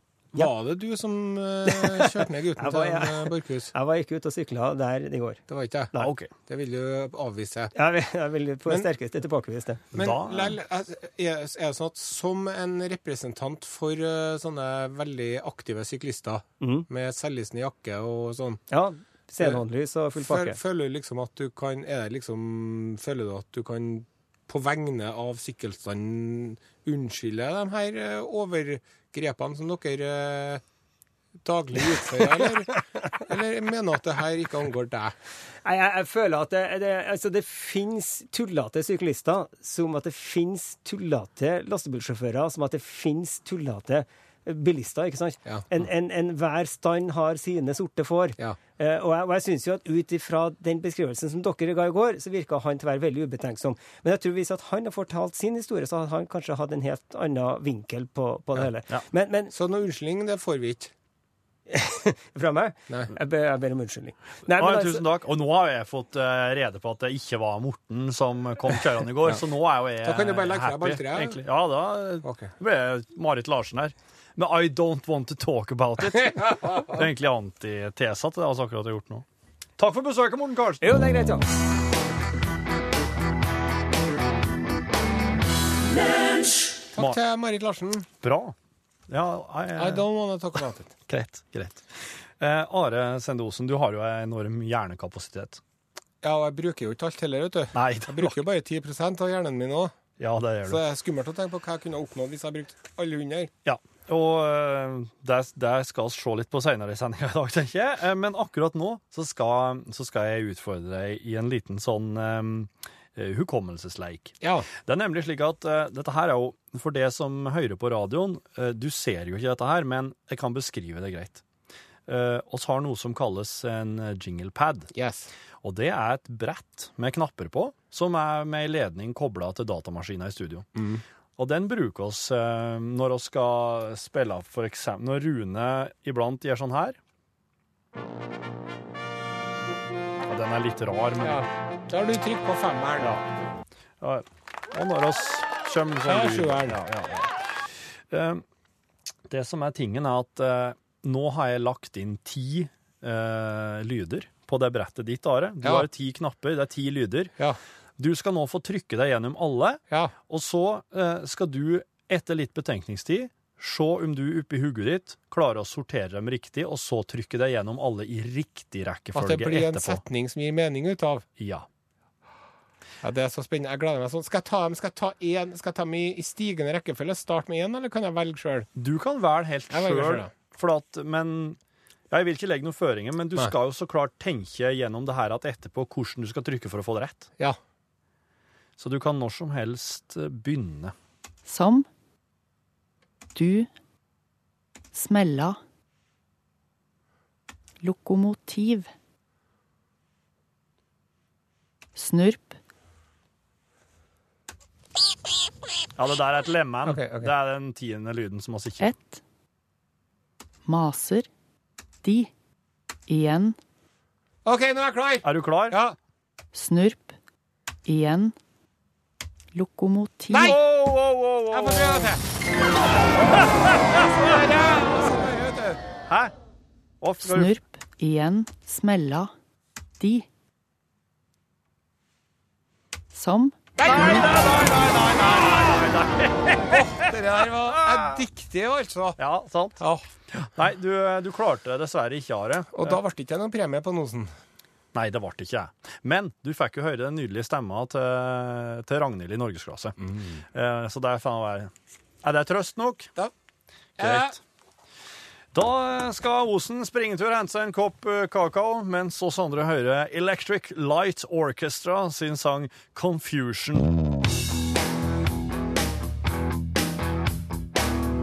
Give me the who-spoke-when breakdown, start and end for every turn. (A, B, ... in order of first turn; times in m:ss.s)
0:00.3-0:03.7 A
0:01.6-0:05.4 B
0:05.5-0:05.9 A
0:05.9-0:06.3 C
0:06.4-0:07.7 A
0:07.7-0:09.8 B
0:09.9-0:18.6 A
0:09.9-0:10.5 C
0:16.6-0:16.8 B
0:18.7-0:20.6 B
0:20.2-0:30.6 A
0:31.4-0:35.2 A
0:35.6-0:59.5 B
0:59.5-1:00.9 A
1:01.7-1:05.0 B
1:04.6-1:19.2 C
1:10.0-1:11.4 A
1:12.2-1:12.5 A
1:19.8-1:20.8 C
1:20.8-1:21.4 B
1:26.9-1:28.1 A
1:28.2-1:28.5 C
1:29.1-1:30.0 C
1:29.8-1:30.9 A
1:31.1-1:35.6 C
1:36.2-1:40.0 A
1:37.7-1:38.4 C
1:40.2-1:40.8 C
1:40.6-1:43.5 A
1:43.6-2:01.4 C
1:54.4-1:54.7 A
2:02.1-2:04.9 C
2:04.9-2:05.3 A
2:05.6-2:10.7 C
2:10.7-2:11.0 A
2:11.4-2:17.0 C
2:20.3-2:21.4 C
2:21.2-2:23.2 A
2:23.0-2:23.2 C
2:24.0-2:28.4 C
2:26.0-2:26.8 A
2:29.3-2:37.3 C
2:35.6-2:35.9 A
2:38.0-2:50.0 C
2:49.1-2:51.2 A
2:51.4-2:51.6 C
2:53.0-2:58.7 A
2:58.8-3:01.6 C
2:59.7-3:00.3 A
3:02.1-3:07.3 C
3:08.8-3:10.9 C
3:11.4-3:11.9 D
3:13.3-3:13.7 D
3:14.9-3:15.6 D
3:17.8-3:18.9 D
3:21.9-3:22.6 D
3:26.0-3:28.9 C
3:26.8-3:27.3 A
3:28.8-3:29.2 D
3:30.6-3:31.3 D
3:32.0-3:32.3 D
3:33.1-3:33.6 D
3:34.4-3:36.0 A
3:35.2-3:35.8 C
3:36.5-3:37.1 D
3:37.8-3:38.3 D
3:39.5-3:40.5 D
3:40.3-3:40.6 A
3:40.4-3:42.2 C
3:41.5-3:42.2 A
3:43.2-3:44.2 C
3:43.8-3:45.8 A
3:46.1-3:46.3 C
3:47.0-3:47.5 C
3:47.2-3:49.3 D
3:50.0-3:50.3 D
3:53.1-3:54.3 D
3:53.8-3:55.8 A
3:53.8-3:57.1 C
3:56.7-3:59.2 A
3:57.7-3:58.2 C
3:59.2-3:59.8 C
3:59.8-4:00.4 A
4:00.4-4:03.0 C
4:02.7-4:04.3 A
4:04.9-4:11.7 C
4:12.2-4:13.1 C
4:14.0-4:14.4 A
4:14.0-4:14.4 C
4:15.5-4:23.9 C